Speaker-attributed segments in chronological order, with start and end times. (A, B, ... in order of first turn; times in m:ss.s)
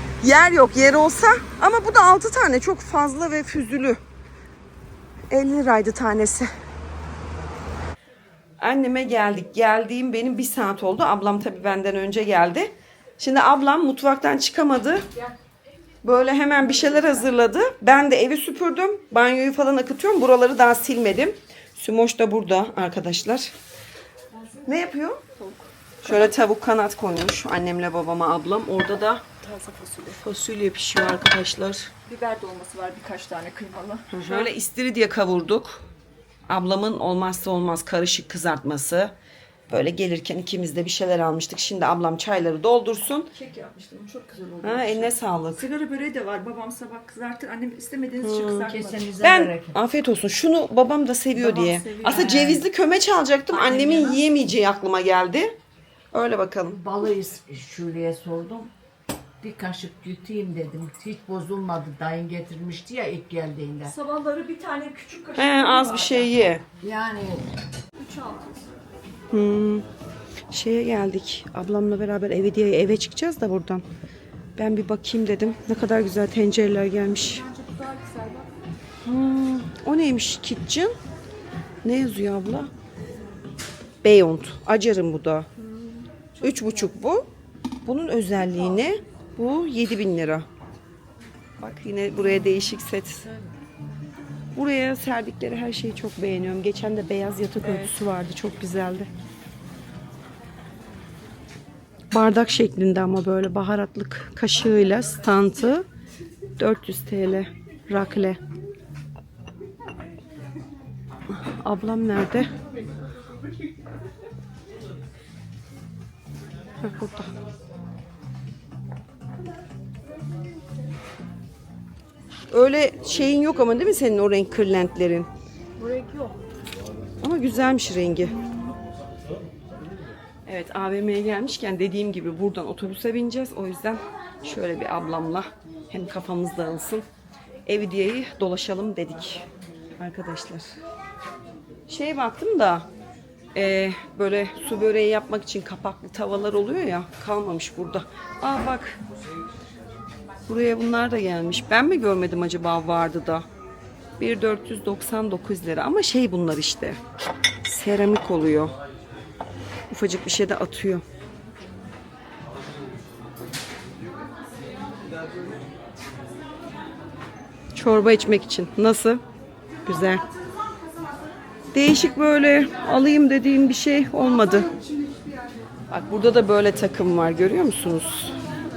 0:00.2-0:04.0 A
0:05.3-0:06.5 A
0:08.6-0:15.1 A
0:16.0-0:23.5 A
0:24.6-0:25.2 A
0:25.4-0:25.6 B
0:26.0-0:29.2 A
0:29.4-0:30.2 B
0:30.1-0:31.9 A
0:32.0-0:34.5 B
0:34.1-0:35.8 A
0:36.5-0:39.1 A
0:39.7-0:43.3 A
0:43.3-0:49.0 B
0:44.6-0:45.7 A
0:48.2-0:55.5 A
0:48.7-0:49.8 C
0:51.4-0:52.3 B
0:52.0-0:52.6 C
0:53.6-0:54.1 B
0:56.1-0:56.8 A
0:56.7-0:58.7 C
0:59.4-1:04.0 C
1:03.8-1:06.3 B
1:05.3-1:06.6 A
1:06.8-1:07.4 C
1:08.0-1:08.6 B
1:09.3-1:09.8 A
1:10.5-1:13.8 A
1:14.6-1:17.5 A
1:17.5-1:18.5 B
1:19.0-1:20.9 A
1:21.8-1:22.7 A
1:24.0-1:25.5 A
1:25.9-1:26.5 B
1:26.4-1:27.3 A
1:27.8-1:30.5 A
1:31.6-1:33.3 A
1:34.5-1:39.1 A
1:42.1-1:45.8 A
1:46.6-1:48.4 A
1:51.3-1:52.5 A
1:56.8-1:57.3 A
2:02.5-2:05.3 A
2:05.8-2:06.4 B
2:07.2-2:08.4 A
2:10.4-2:17.0 A
2:17.6-2:19.5 A
2:20.0-2:20.8 A
2:21.9-2:22.9 A
2:23.5-2:29.0 A
2:30.5-2:33.4 A
2:34.2-2:37.0 A
2:37.6-2:38.7 A
2:39.9-2:41.0 A
2:47.7-2:49.2 A
2:49.8-2:50.2 A
2:51.7-2:54.7 A
2:55.9-2:58.4 A